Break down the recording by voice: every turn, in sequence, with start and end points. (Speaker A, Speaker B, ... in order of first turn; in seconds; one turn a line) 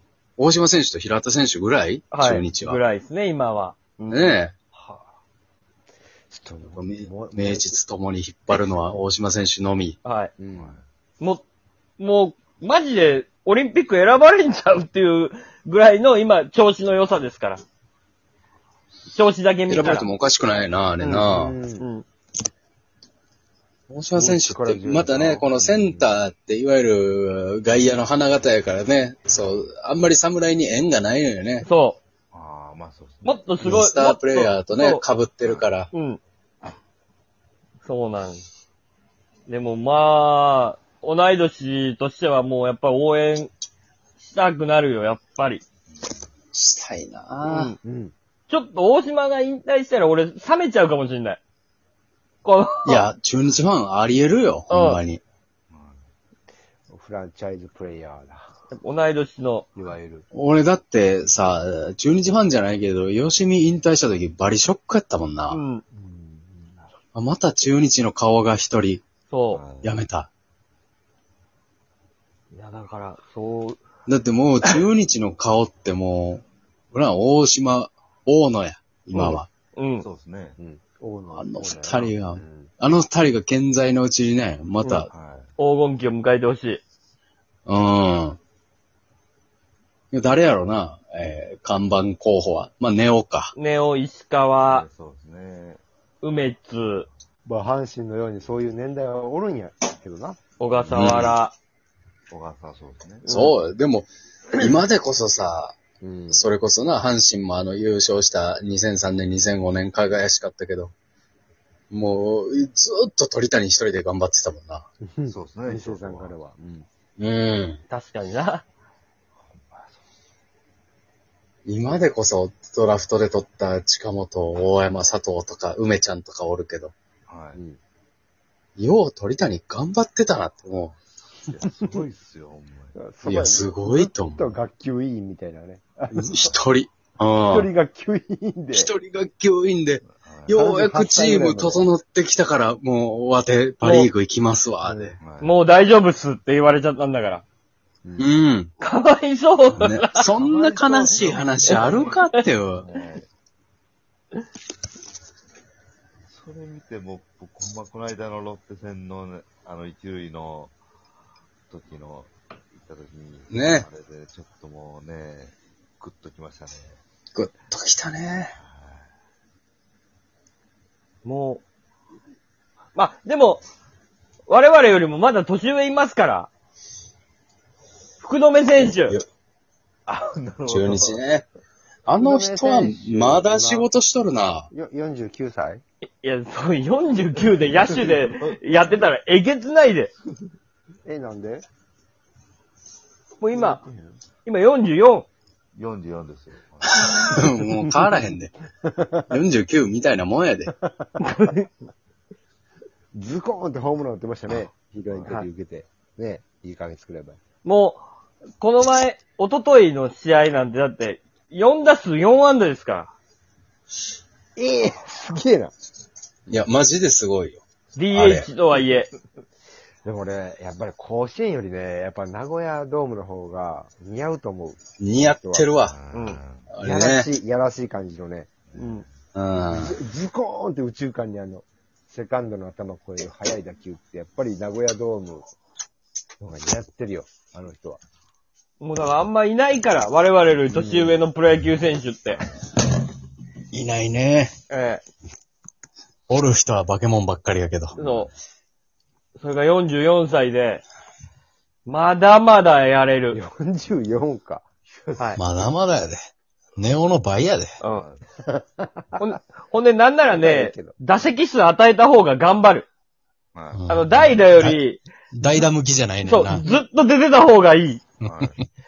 Speaker A: 0.4-2.8
Speaker B: 2.1-4.3
Speaker A: 4.1-4.5
Speaker C: 6.3-7.8
Speaker A: 6.7-10.0
Speaker B: 10.0-10.3
Speaker C: 10.4-10.8
Speaker D: 10.5-10.8
Speaker B: 12.0-17.6
Speaker B: 19.1-20.1
Speaker A: 19.7-21.6
Speaker B: 21.0-21.3
Speaker C: 21.1-21.9
Speaker B: 21.8-22.1
Speaker A: 23.9-31.7
Speaker C: 24.1-24.9
Speaker D: 24.7-26.0
Speaker B: 31.6-32.0
Speaker D: 32.3-33.4
Speaker B: 33.2-35.0
Speaker A: 33.6-35.9
Speaker B: 35.9-36.2
Speaker B: 37.8-38.4
Speaker B: 39.5-43.5
Speaker B: 44.2-45.6
Speaker A: 46.5-47.7
Speaker B: 47.5-47.8
Speaker C: 47.8-48.1
Speaker B: 48.5-51.4
Speaker B: 52.4-53.1
Speaker A: 52.8-55.2
Speaker B: 54.7-55.0
Speaker D: 55.7-56.0
Speaker C: 56.9-58.5
Speaker B: 58.7-59.7
Speaker C: 59.7-60.2
Speaker A: 60.3-65.6
Speaker B: 65.5-65.8
Speaker C: 65.9-66.8
Speaker A: 67.1-69.0
Speaker B: 69.3-69.6
Speaker D: 69.5-69.9
Speaker A: 69.8-70.3
Speaker B: 72.5-73.8
Speaker A: 74.1-79.5
Speaker B: 79.1-80.0
Speaker D: 80.0-80.5
Speaker C: 80.6-82.7
Speaker A: 81.3-85.1
Speaker D: 85.1-85.5
Speaker B: 85.6-86.8
Speaker A: 87.7-88.4
Speaker A: 90.1-93.5
Speaker B: 93.5-94.8
Speaker D: 94.6-95.8
Speaker B: 96.2-97.1
Speaker C: 97.5-100.4
Speaker B: 100.6-101.5
Speaker D: 100.8-101.2
Speaker A: 100.9-101.3
Speaker D: 102.3-103.2
Speaker B: 103.2-103.5
Speaker A: 103.3-105.8
Speaker C: 106.0-106.5
Speaker A: 106.3-110.9
Speaker A: 111.9-114.9
Speaker C: 115.0-116.9
Speaker D: 115.3-116.3
Speaker A: 117.2-117.8
Speaker B: 117.9-118.6
Speaker D: 119.4-120.0
Speaker A: 121.7-126.9
Speaker D: 127.3-127.6
Speaker A: 128.8-130.9
Speaker D: 131.2-133.0
Speaker C: 132.9-136.5
Speaker A: 133.2-134.5
Speaker A: 136.1-137.7
Speaker C: 137.4-138.9
Speaker A: 138.7-145.2
Speaker D: 140.2-140.5
Speaker C: 140.5-141.9
Speaker B: 143.8-144.1
Speaker C: 144.8-145.1
Speaker D: 145.2-145.6
Speaker B: 145.4-147.4
Speaker C: 148.0-148.3
Speaker A: 148.2-148.7
Speaker B: 148.8-150.3
Speaker A: 149.7-152.8
Speaker D: 150.3-153.2
Speaker B: 151.7-152.4
Speaker D: 156.3-160.7
Speaker D: 161.7-167.0
Speaker A: 163.5-163.8
Speaker A: 167.3-168.5
Speaker D: 168.6-169.1
Speaker B: 171.2-171.6
Speaker B: 172.9-173.6
Speaker B: 174.5-176.5
Speaker B: 178.2-179.2
Speaker D: 180.1-181.2
Speaker A: 180.7-181.4
Speaker A: 182.1-184.7
Speaker C: 182.1-183.9
Speaker C: 184.7-185.8
Speaker B: 186.2-190.1
Speaker D: 187.9-188.5
Speaker C: 191.0-191.6
Speaker B: 193.4-193.8
Speaker B: 194.4-195.3
Speaker D: 195.8-197.1
Speaker A: 196.9-198.5
Speaker A: 199.3-200.7
Speaker B: 201.2-201.7
Speaker C: 203.1-207.4
Speaker B: 207.6-208.0
Speaker B: 208.6-213.1
Speaker C: 214.6-215.7
Speaker A: 216.5-217.6
Speaker B: 217.9-219.1
Speaker A: 218.1-218.5
Speaker C: 220.0-224.8
Speaker A: 225.0-225.9
Speaker C: 225.3-225.7
Speaker D: 225.8-226.7
Speaker B: 226.1-226.4
Speaker A: 226.7-227.3
Speaker C: 226.8-228.5
Speaker D: 228.7-229.1
Speaker B: 228.8-229.0
Speaker A: 229.3-230.0
Speaker C: 229.7-235.5
Speaker C: 236.4-238.0
Speaker B: 238.8-242.4
Speaker C: 240.7-241.2
Speaker A: 243.7-244.5
Speaker B: 244.7-245.0
Speaker A: 246.3-248.0
Speaker B: 247.9-248.3
Speaker B: 249.4-250.8
Speaker B: 251.8-253.4
Speaker C: 253.3-255.4
Speaker A: 255.4-256.2
Speaker A: 256.8-257.8
Speaker D: 257.9-258.2
Speaker C: 258.5-259.2
Speaker B: 259.2-262.9
Speaker C: 260.3-260.9
Speaker D: 263.5-263.8
Speaker A: 263.7-264.8
Speaker B: 263.9-265.0
Speaker A: 265.3-266.6
Speaker B: 266.2-268.0
Speaker D: 268.2-268.6